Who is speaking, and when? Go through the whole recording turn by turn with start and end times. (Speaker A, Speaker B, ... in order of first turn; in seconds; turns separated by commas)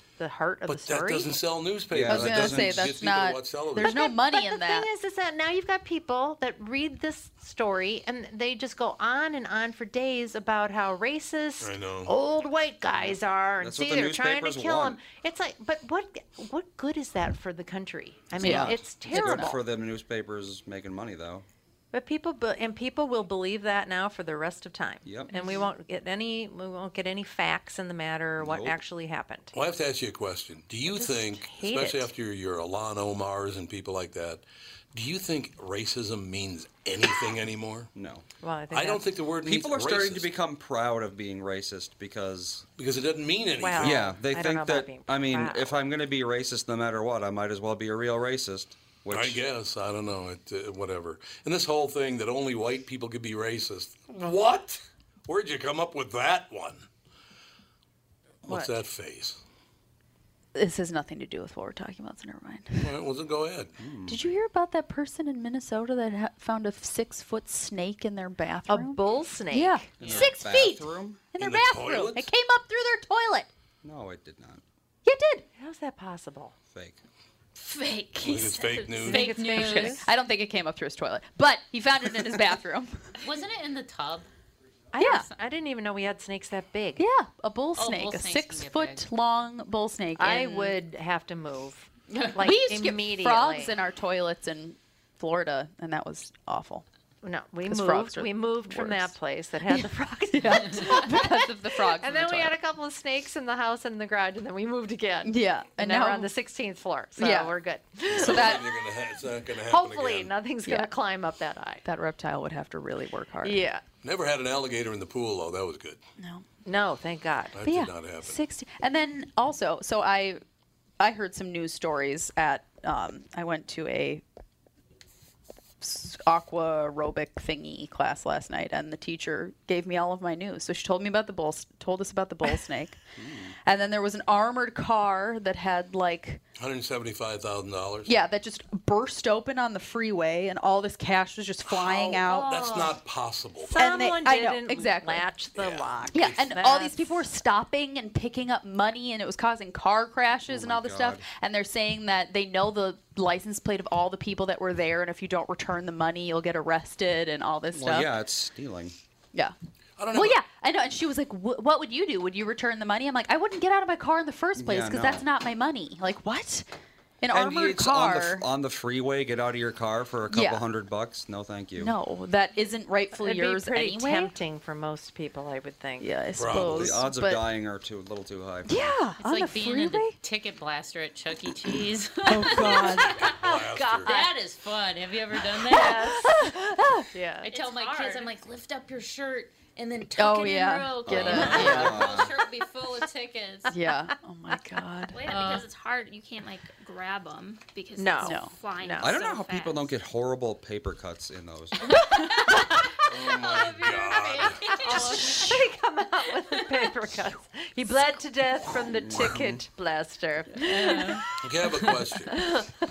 Speaker A: 0.2-1.4, Speaker B: 0.7-4.0, Speaker C: 1.9-3.0, Speaker D: 2.0-4.9, Speaker A: 3.8-19.6, Speaker B: 11.6-12.1, Speaker C: 13.0-15.0, Speaker D: 18.4-19.6, Speaker C: 18.4-21.4, Speaker A: 21.9-29.5, Speaker C: 25.0-25.4, Speaker D: 25.3-25.6, Speaker C: 28.4-28.8, Speaker B: 29.5-37.9, Speaker A: 30.9-32.1, Speaker C: 37.9-38.2, Speaker A: 38.4-39.1, Speaker B: 38.7-40.3, Speaker C: 39.4-42.6, Speaker B: 42.8-44.1, Speaker A: 43.6-45.8, Speaker C: 43.8-49.4, Speaker B: 49.1-56.9, Speaker B: 58.4-59.4, Speaker D: 58.5-58.7, Speaker D: 60.5-62.9, Speaker B: 62.8-63.7, Speaker C: 63.8-64.3, Speaker D: 64.0-69.0, Speaker A: 68.7-70.3, Speaker D: 69.5-73.5, Speaker C: 70.0-71.2, Speaker E: 70.0-70.2, Speaker B: 71.4-72.3, Speaker C: 73.8-74.6, Speaker D: 75.0-75.5, Speaker A: 75.5-76.5, Speaker C: 76.7-77.0, Speaker F: 77.6-79.8, Speaker B: 78.2-79.3, Speaker E: 79.1-80.0, Speaker A: 79.1-80.0, Speaker D: 79.5-83.0, Speaker E: 83.2-84.3, Speaker A: 84.9-87.0, Speaker D: 85.0-85.2, Speaker D: 87.0-90.8, Speaker E: 87.7-89.1, Speaker A: 90.2-93.8, Speaker D: 92.3-96.8, Speaker A: 97.2-108.9, Speaker D: 97.7-99.1, Speaker D: 99.7-102.6, Speaker D: 105.2-106.3, Speaker D: 107.2-107.5, Speaker B: 108.1-110.3, Speaker D: 108.1-108.6, Speaker A: 109.5-111.8, Speaker D: 110.6-110.9, Speaker D: 111.8-113.7, Speaker A: 113.4-113.8, Speaker B: 114.0-116.0, Speaker D: 116.2-116.4, Speaker A: 116.6-117.6, Speaker B: 117.5-118.4, Speaker D: 117.6-120.4, Speaker D: 121.0-124.2, Speaker D: 125.8-133.0, Speaker C: 133.2-133.6, Speaker D: 133.6-136.4, Speaker B: 136.6-138.1, Speaker D: 138.1-142.6, Speaker B: 141.7-143.8, Speaker A: 142.1-143.0, Speaker A: 143.6-147.0, Speaker D: 143.7-145.3, Speaker B: 145.6-146.5, Speaker D: 146.1-158.1, Speaker C: 150.5-151.2, Speaker C: 157.7-158.9, Speaker B: 160.0-160.4, Speaker D: 160.1-166.7, Speaker C: 164.6-165.2, Speaker D: 167.2-168.4, Speaker C: 167.3-171.9, Speaker D: 170.3-170.6, Speaker D: 171.8-174.3, Speaker A: 173.1-176.2, Speaker D: 176.0-177.4, Speaker B: 176.3-177.0, Speaker C: 176.5-179.0, Speaker D: 178.7-180.2, Speaker E: 179.2-182.7, Speaker D: 182.3-183.2, Speaker A: 182.4-184.3, Speaker B: 182.4-184.1, Speaker E: 184.0-186.2, Speaker A: 185.7-188.2, Speaker D: 185.7-187.1, Speaker E: 187.4-193.7, Speaker F: 187.5-188.1, Speaker D: 190.2-192.1, Speaker C: 191.1-192.4, Speaker D: 193.7-195.2, Speaker F: 195.1-199.9, Speaker E: 195.3-195.7, Speaker A: 198.0-199.2, Speaker D: 198.2-198.5, Speaker C: 199.0-202.2, Speaker A: 202.5-203.1, Speaker B: 203.0-204.8, Speaker F: 203.6-205.6, Speaker E: 203.9-205.6, Speaker A: 204.6-211.2, Speaker C: 208.9-209.5, Speaker E: 210.6-211.2, Speaker B: 211.4-212.4, Speaker A: 212.3-212.7